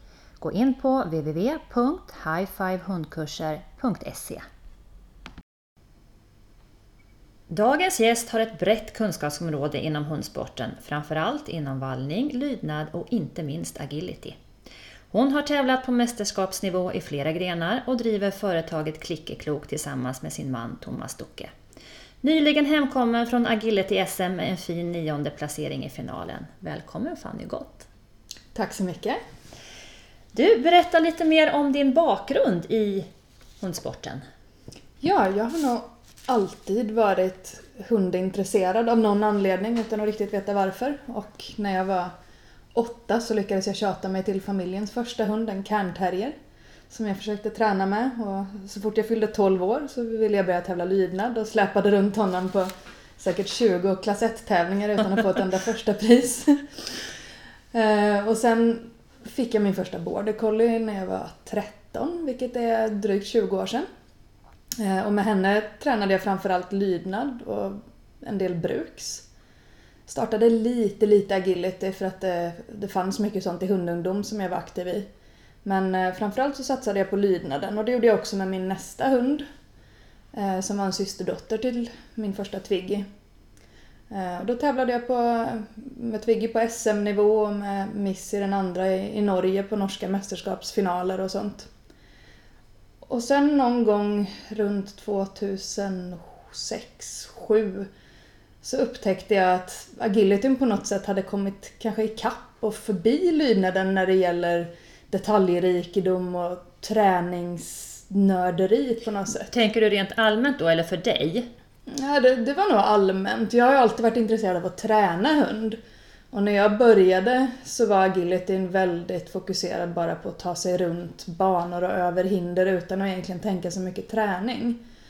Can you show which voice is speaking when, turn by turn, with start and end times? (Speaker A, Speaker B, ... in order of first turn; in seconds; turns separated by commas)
Speaker A: 0.4-4.4, Speaker A: 7.5-14.4, Speaker A: 15.1-21.5, Speaker A: 22.2-27.9, Speaker B: 28.5-29.2, Speaker A: 30.3-33.1, Speaker A: 33.6-34.2, Speaker B: 35.0-42.1, Speaker B: 42.7-46.3, Speaker B: 46.9-57.0, Speaker B: 57.7-63.8, Speaker B: 64.8-69.2, Speaker B: 70.1-75.0, Speaker B: 75.6-79.4, Speaker B: 80.3-83.0, Speaker B: 84.1-91.7, Speaker B: 93.1-97.9, Speaker B: 98.6-109.5, Speaker A: 109.5-111.5, Speaker B: 111.9-115.8, Speaker B: 116.3-124.8